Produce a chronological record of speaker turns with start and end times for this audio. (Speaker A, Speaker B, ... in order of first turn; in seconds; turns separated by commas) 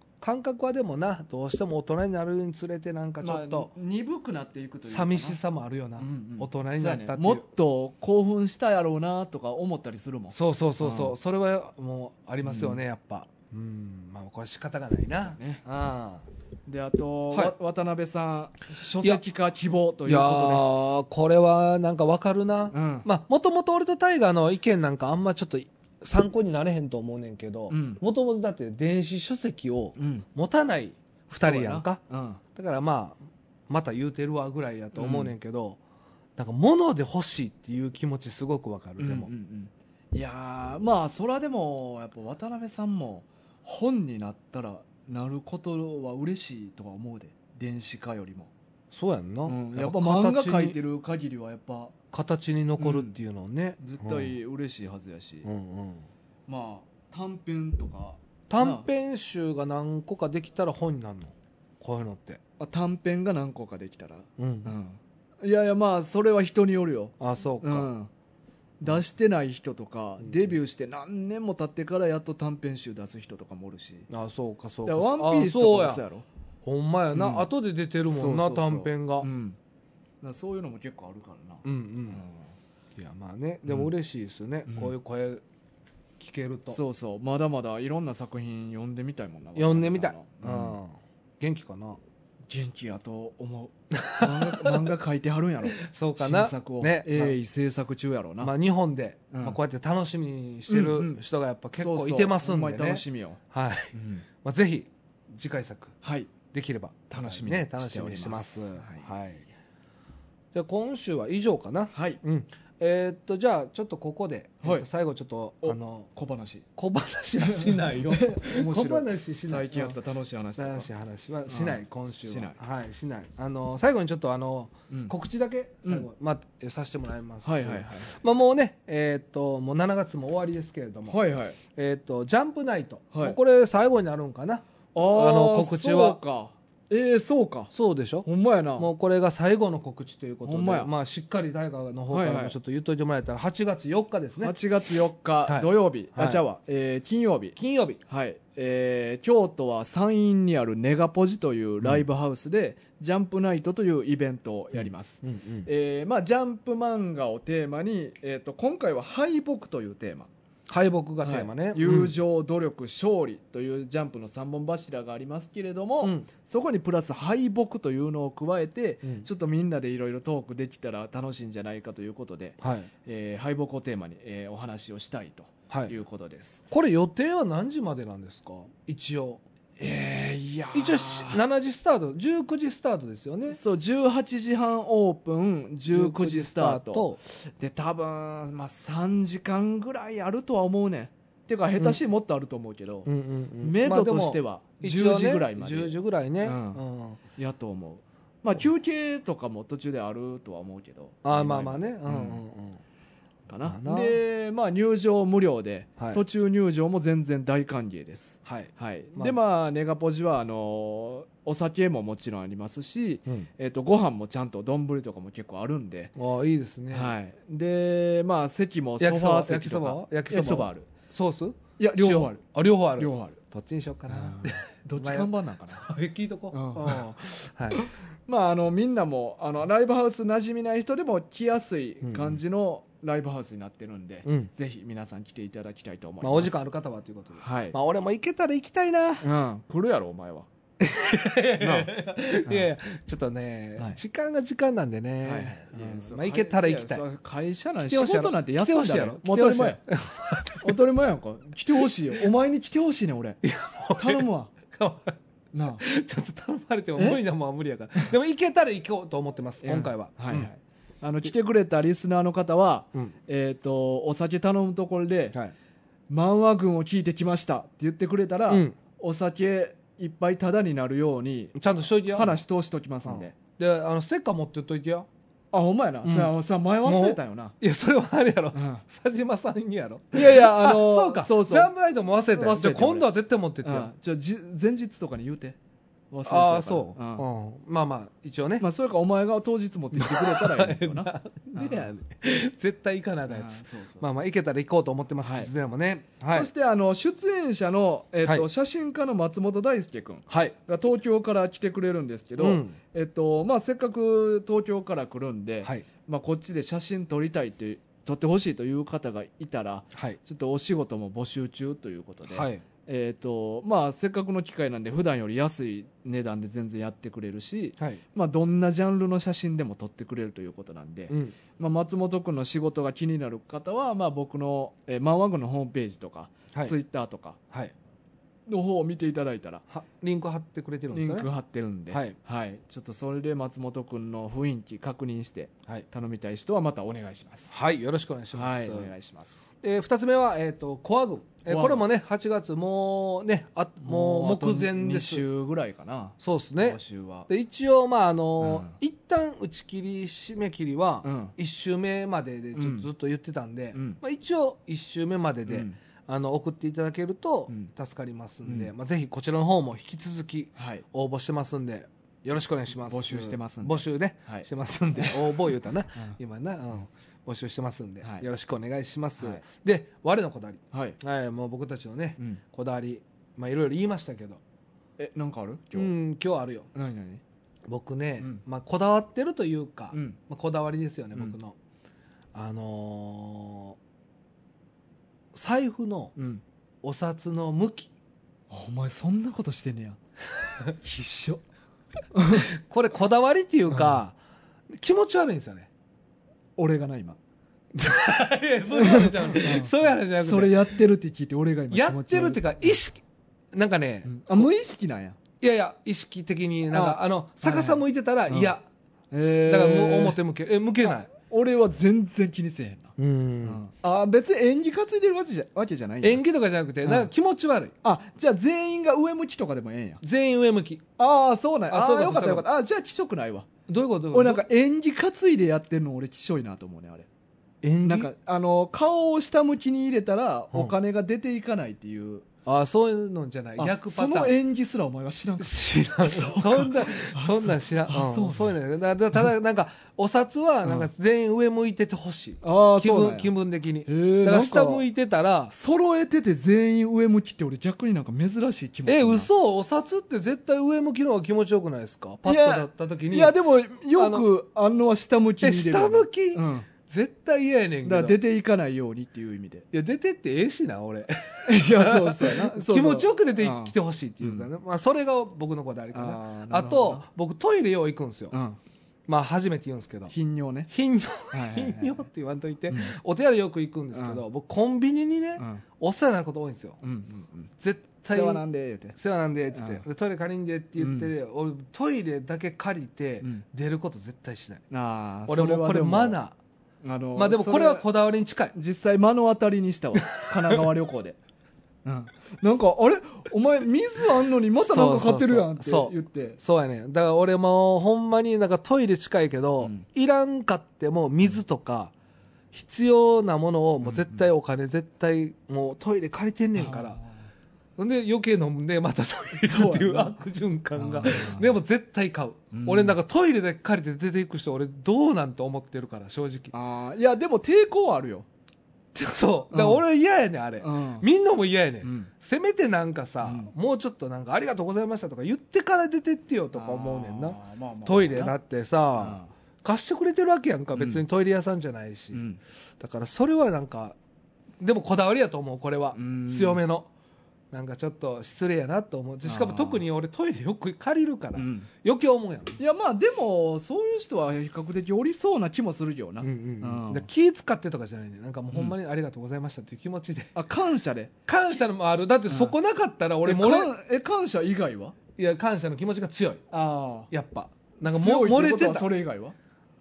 Speaker A: 0.2-3.7, Speaker B: 3.2-5.4, Speaker A: 4.8-7.4, Speaker B: 6.0-11.2, Speaker A: 10.3-16.2, Speaker B: 12.4-12.8, Speaker B: 15.3-15.6, Speaker B: 16.6-20.9, Speaker A: 20.0-32.0, Speaker B: 22.7-23.1, Speaker B: 27.7-28.0, Speaker B: 29.9-30.2, Speaker B: 31.3-32.4, Speaker A: 32.5-35.8, Speaker B: 34.9-35.3, Speaker A: 36.4-39.3, Speaker B: 39.0-48.5, Speaker A: 48.9-50.8, Speaker B: 49.5-51.9, Speaker A: 52.1-54.4, Speaker B: 52.8-53.2, Speaker B: 53.8-55.5, Speaker A: 55.4-56.0, Speaker B: 56.5-58.9, Speaker A: 58.5-62.4, Speaker B: 62.6-68.1, Speaker A: 64.4-64.7, Speaker A: 67.2-67.9, Speaker B: 68.8-74.1, Speaker A: 70.2-70.5, Speaker A: 74.1-76.0, Speaker B: 74.8-76.2, Speaker A: 76.6-79.3, Speaker B: 77.1-77.5, Speaker B: 78.1-79.6, Speaker B: 80.2-82.5, Speaker A: 81.6-82.2, Speaker A: 83.0-85.4, Speaker B: 83.7-83.9, Speaker B: 84.7-84.9, Speaker A: 86.2-86.8, Speaker B: 86.7-90.8, Speaker A: 89.5-92.0, Speaker B: 92.5-98.5, Speaker A: 93.9-94.9, Speaker A: 95.7-97.4, Speaker A: 98.4-103.9, Speaker B: 99.3-99.6, Speaker B: 100.7-101.2, Speaker B: 101.8-103.4, Speaker B: 103.9-104.2, Speaker A: 104.4-106.0, Speaker B: 106.0-106.3, Speaker A: 106.5-109.5, Speaker B: 107.1-109.1, Speaker A: 110.5-116.1, Speaker B: 111.9-112.2, Speaker B: 115.6-116.6, Speaker A: 116.8-120.0, Speaker B: 117.4-120.9, Speaker A: 120.6-131.2, Speaker B: 121.5-122.6, Speaker B: 127.4-128.1, Speaker B: 131.1-131.6, Speaker A: 131.7-136.2, Speaker B: 134.9-137.7, Speaker A: 137.7-144.5, Speaker B: 138.2-138.9, Speaker B: 140.4-140.9, Speaker B: 142.1-142.6, Speaker B: 144.4-160.3, Speaker A: 145.4-146.4, Speaker A: 147.6-148.0, Speaker A: 154.7-155.7, Speaker A: 160.7-162.1, Speaker B: 161.2-176.6, Speaker A: 172.6-172.9, Speaker A: 175.7-175.9, Speaker A: 176.7-179.4, Speaker B: 179.8-181.4, Speaker A: 180.7-183.6, Speaker B: 183.5-193.1, Speaker A: 185.9-187.2, Speaker A: 193.0-197.2, Speaker B: 193.6-196.8, Speaker B: 197.3-202.4, Speaker A: 201.2-202.8, Speaker B: 203.5-216.1, Speaker A: 203.6-204.2, Speaker A: 208.4-209.4, Speaker A: 216.2-217.1, Speaker B: 216.9-220.9, Speaker A: 219.0-227.8, Speaker B: 221.8-222.4, Speaker B: 223.0-223.4, Speaker B: 224.1-225.9, Speaker B: 226.5-227.0, Speaker B: 227.7-236.6, Speaker A: 232.0-232.4, Speaker A: 234.2-234.5, Speaker A: 236.2-239.2, Speaker B: 237.4-237.8, Speaker B: 239.2-240.5, Speaker A: 240.8-247.0, Speaker B: 241.6-241.9, Speaker B: 245.2-249.8, Speaker A: 247.8-250.8, Speaker B: 250.6-253.4, Speaker A: 253.4-255.2, Speaker B: 254.0-254.5, Speaker B: 255.5-255.8, Speaker A: 255.8-260.5, Speaker B: 259.6-265.4, Speaker B: 266.1-273.3, Speaker A: 268.5-268.8, Speaker A: 271.6-272.4, Speaker A: 273.0-275.1, Speaker B: 275.5-277.6, Speaker A: 276.0-283.9, Speaker B: 278.5-278.8, Speaker B: 280.1-281.7, Speaker B: 282.3-283.1, Speaker B: 283.6-285.6, Speaker B: 286.1-287.2, Speaker A: 286.2-288.7, Speaker B: 288.6-291.9, Speaker A: 289.9-296.5, Speaker B: 293.3-294.2, Speaker B: 295.2-295.5, Speaker B: 296.3-327.4, Speaker A: 300.3-300.5, Speaker A: 302.4-302.8, Speaker A: 312.3-312.6, Speaker A: 321.1-321.3, Speaker B: 328.5-329.6, Speaker A: 329.7-331.3, Speaker B: 330.9-337.6, Speaker A: 337.5-338.9, Speaker B: 338.3-339.5, Speaker A: 339.6-345.2, Speaker B: 341.4-341.8, Speaker B: 343.8-347.3, Speaker A: 346.2-374.4, Speaker B: 348.4-348.7, Speaker B: 351.0-351.3, Speaker B: 352.5-352.9, Speaker B: 353.7-354.0, Speaker B: 355.5-355.8, Speaker B: 358.4-358.7, Speaker B: 360.6-360.8, Speaker B: 362.8-365.3, Speaker B: 368.0-368.3, Speaker B: 370.7-371.0, Speaker B: 375.0-375.9, Speaker A: 375.7-376.7, Speaker B: 376.7-377.2, Speaker A: 377.7-381.6, Speaker B: 379.9-380.2, Speaker A: 382.3-383.8, Speaker A: 385.3-386.1, Speaker B: 386.1-386.4, Speaker A: 386.8-387.9, Speaker B: 388.5-390.0, Speaker B: 390.8-391.4, Speaker B: 392.1-392.5, Speaker A: 392.3-394.1, Speaker B: 393.7-393.9, Speaker A: 394.7-395.7, Speaker B: 396.6-397.2, Speaker A: 397.7-400.7, Speaker B: 398.7-402.8, Speaker A: 401.7-403.0, Speaker A: 403.5-404.5, Speaker B: 404.0-405.2, Speaker A: 405.4-408.6, Speaker B: 406.7-408.5, Speaker B: 409.1-410.2, Speaker A: 409.5-411.1, Speaker B: 410.8-416.2, Speaker A: 413.0-413.6, Speaker A: 416.0-417.7, Speaker B: 416.8-417.1, Speaker B: 417.8-420.0, Speaker A: 420.0-420.8, Speaker B: 421.0-423.5, Speaker A: 421.7-422.5, Speaker A: 423.7-424.4, Speaker B: 424.1-427.1, Speaker A: 427.6-428.1, Speaker B: 427.8-432.2, Speaker A: 432.4-434.3, Speaker B: 433.6-438.5, Speaker A: 435.4-445.5, Speaker B: 442.4-443.3, Speaker B: 443.9-444.8, Speaker B: 445.5-449.3, Speaker A: 448.9-453.4, Speaker B: 452.2-456.7, Speaker A: 453.9-454.3, Speaker A: 455.4-458.2, Speaker B: 457.8-459.6, Speaker A: 459.7-468.3, Speaker B: 461.4-464.5, Speaker B: 465.9-467.0, Speaker B: 468.3-468.6, Speaker A: 469.1-470.1, Speaker B: 470.1-470.7, Speaker A: 470.7-476.8, Speaker B: 471.3-472.0, Speaker B: 472.7-472.9, Speaker B: 473.9-474.2, Speaker B: 475.4-475.6, Speaker B: 476.8-477.5, Speaker A: 477.6-478.4, Speaker B: 478.1-479.0, Speaker A: 478.9-484.6, Speaker B: 479.5-479.8, Speaker B: 480.8-481.1, Speaker B: 484.7-486.2, Speaker A: 485.3-486.4, Speaker B: 486.8-487.9, Speaker A: 487.1-488.5, Speaker B: 488.5-491.2, Speaker B: 491.8-496.4, Speaker A: 494.5-501.9, Speaker A: 502.5-507.0, Speaker B: 503.8-504.2, Speaker B: 506.5-507.2, Speaker A: 507.8-516.5, Speaker B: 509.3-510.2, Speaker B: 510.7-511.5, Speaker B: 512.5-513.0, Speaker B: 516.5-518.3, Speaker A: 518.9-532.2, Speaker B: 519.5-519.8, Speaker B: 520.6-521.1, Speaker B: 521.8-522.1, Speaker B: 523.2-523.5, Speaker B: 526.5-528.4, Speaker B: 529.0-529.3, Speaker B: 530.7-531.0, Speaker B: 532.1-532.4, Speaker A: 532.8-534.0, Speaker A: 534.6-536.9, Speaker B: 535.9-536.6, Speaker A: 537.5-542.6, Speaker B: 539.2-539.8, Speaker B: 541.4-541.7, Speaker B: 542.6-547.1, Speaker A: 546.2-550.3, Speaker B: 550.3-551.1, Speaker A: 551.3-553.7, Speaker B: 552.3-552.5, Speaker B: 553.2-555.0, Speaker A: 555.2-556.4, Speaker B: 556.5-557.1, Speaker A: 557.1-558.9, Speaker B: 557.8-559.4